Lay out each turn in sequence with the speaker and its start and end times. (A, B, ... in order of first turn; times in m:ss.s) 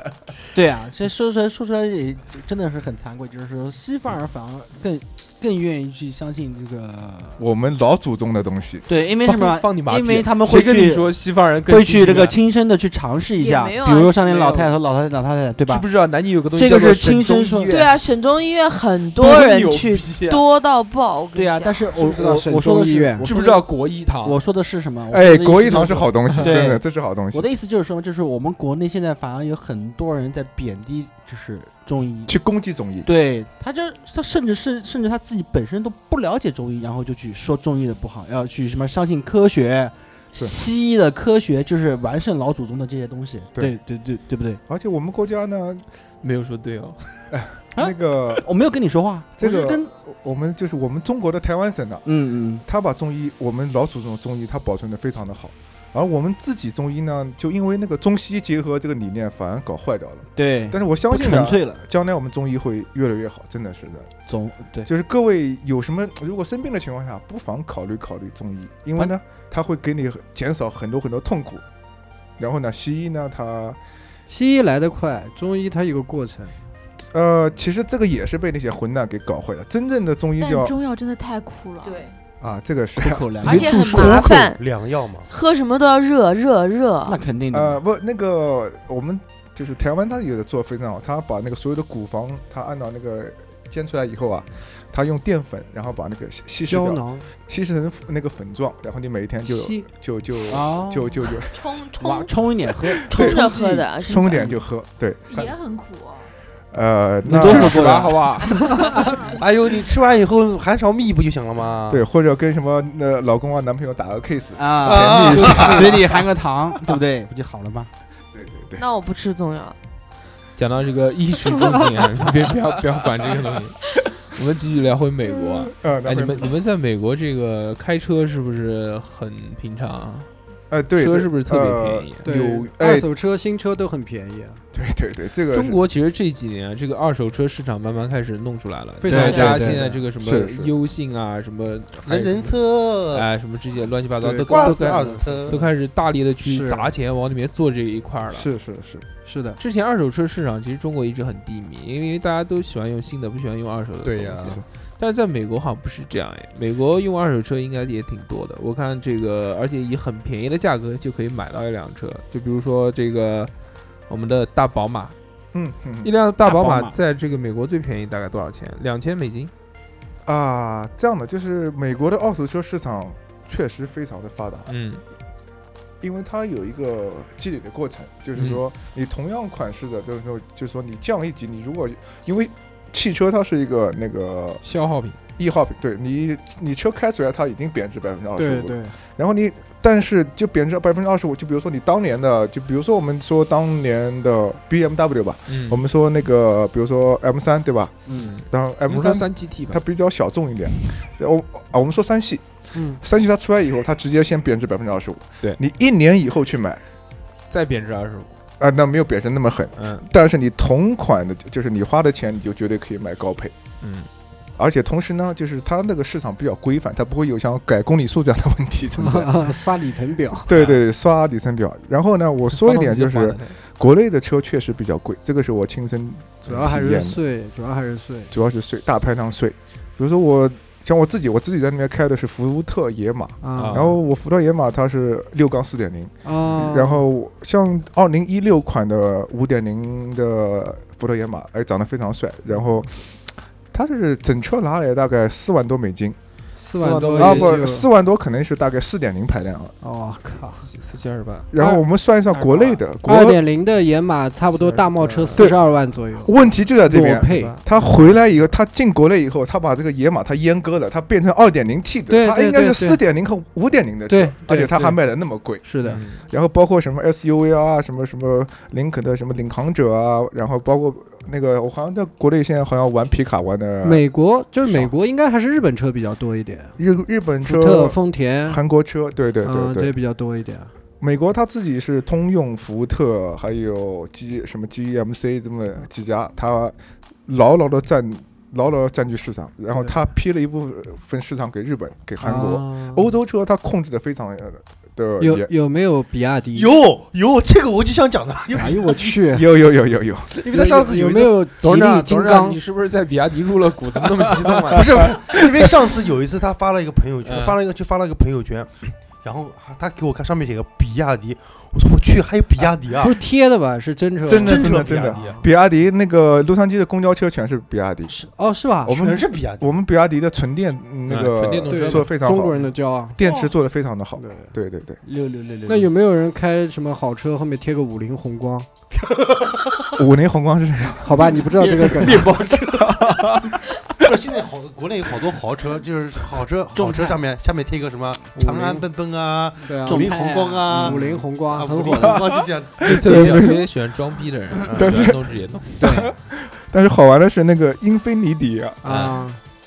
0:00.5-0:07.4 A
0:07.4-0:08.9 B
0:08.9-0:11.1 A
0:09.2-0:12.4 C
0:11.7-0:15.9 A
0:13.4-0:14.2 D
0:14.2-0:14.7 C
0:15.7-0:17.9 C
0:16.5-0:17.8 A
0:17.7-0:21.9 D
0:19.2-0:20.4 C
0:21.4-0:23.7 A
0:21.9-0:23.3 E
0:23.2-0:24.4 C
0:24.2-0:32.4 A
0:25.1-0:27.5 B
0:32.3-0:33.1 B
0:33.0-0:44.6 A
0:44.7-0:45.8 B
0:46.2-0:47.1 C
0:47.3-0:48.4 B
0:47.8-0:49.9 A
0:49.4-0:52.1 B
0:52.1-0:52.6 A
0:52.6-1:04.1 B
1:00.4-1:01.8 A
1:04.3-1:04.9 A
1:04.9-1:11.6 B
1:12.4-1:13.8 B
1:14.3-1:16.6 E
1:17.1-1:20.8 B
1:20.4-1:22.1 F
1:21.8-1:22.1 D
1:22.4-1:24.5 B
1:23.0-1:24.3 A
1:23.4-1:24.6 D
1:24.6-1:25.3 G
1:25.3-1:27.2 D
1:27.1-1:27.8 A
1:27.5-1:41.7 B
1:36.7-1:37.3 E
1:39.4-1:39.8 E
1:40.5-1:41.2 A
1:41.5-1:42.4 D
1:42.0-1:44.6 A
1:43.0-1:44.6 D
1:43.0-1:43.5 B
1:44.0-1:45.4 B
1:45.3-1:46.3 F
1:46.7-1:48.0 B
1:47.3-1:48.2 A
1:47.3-1:48.5 C
1:49.0-1:49.4 F
1:49.4-1:52.1 G
1:51.9-1:56.3 B
1:54.6-1:57.9 A
1:54.9-1:55.8 G
1:58.3-1:58.8 B
1:58.8-1:59.8 D
2:00.6-2:03.8 C
2:04.3-2:10.3 C
2:05.5-2:06.5 B
2:10.7-2:13.1 B
2:11.0-2:12.2 C
2:12.2-2:14.6 E
2:14.7-2:15.8 B
2:15.5-2:22.6 C
2:19.0-2:20.0 E
2:19.1-2:19.6 A
2:19.1-2:20.7 B
2:19.2-2:19.6 D
2:22.0-2:23.3 G
2:23.1-2:28.5 C
2:24.2-2:25.7 E
2:24.5-2:25.6 G
2:26.4-2:26.9 E
2:28.3-2:29.1 B
2:29.2-2:29.6 E
2:29.6-2:43.5 C
2:34.0-2:34.6 G
2:44.1-2:45.2 C
2:45.5-2:46.1 B
2:46.0-2:49.5 C
2:46.4-2:47.0 A
2:50.2-2:54.7 B
2:54.7-2:55.0 C
2:56.0-3:04.6 B
2:58.4-2:58.6 C
3:04.6-3:05.2 C
3:05.4-3:26.8 B
3:08.4-3:09.0 E
3:15.5-3:15.8 C
3:18.2-3:19.8 C
3:22.7-3:23.0 E
3:27.5-3:28.4 C
3:28.6-3:33.6 B
3:29.8-3:30.1 C
3:33.8-3:34.1 C
3:34.6-3:39.7 B
3:39.0-3:40.6 E
3:40.4-3:47.2 B
3:40.5-3:40.8 C
3:42.5-3:43.6 C
3:46.5-3:48.3 E
3:48.3-4:03.2 B
3:53.4-3:54.0 E
3:53.6-3:54.0 C
3:56.2-3:57.0 E
4:03.7-4:06.2 B
4:06.6-4:07.9 E
4:06.8-4:07.6 C
4:07.2-4:09.8 B
4:09.8-4:10.7 E
4:10.5-4:11.5 C
4:11.5-4:13.4 B
4:11.6-4:11.8 E
4:12.3-4:12.8 C
4:13.0-4:17.6 E
4:14.5-4:15.5 C
4:15.4-4:34.1 B
4:17.7-4:18.2 C
4:22.1-4:23.0 E
4:24.1-4:25.0 E
4:25.6-4:26.0 E
4:25.8-4:26.2 C
4:33.8-4:36.8 E
4:34.6-4:34.9 B
4:36.8-4:40.0 B
4:37.4-4:38.6 E
4:39.4-4:40.7 E
4:41.0-4:55.5 B
4:52.2-4:53.1 E
4:55.2-4:56.8 E
4:56.5-4:59.3 G
4:58.6-4:59.5 E
4:59.3-5:00.3 B
5:00.3-5:01.4 G
5:00.5-5:02.6 E
5:01.6-5:05.0 C
5:04.7-5:13.2 G
5:07.2-5:07.6 C
5:12.9-5:15.5 E
5:14.3-5:18.2 B
5:14.3-5:15.4 G
5:18.2-5:19.1 E
5:18.8-5:25.0 B
5:18.9-5:19.7 G
5:21.1-5:22.1 C
5:21.7-5:23.2 E
5:24.2-5:24.5 E
5:25.0-5:25.9 A
5:25.7-5:28.7 E
5:28.9-5:30.0 G
5:30.0-5:34.1 B
5:31.0-5:32.6 E
5:31.3-5:33.1 G
5:33.9-5:43.3 G
5:36.8-5:37.1 E
5:36.8-5:37.1 A
5:38.4-5:38.8 E
5:39.6-5:42.4 E
5:39.9-5:41.1 A
5:42.2-5:43.6 B
5:42.8-5:46.0 C
5:44.7-5:45.0 G
5:44.8-5:45.2 B
5:45.8-5:46.1 E
5:45.8-5:49.1 B
5:48.8-5:49.4 E
5:48.8-5:49.2 C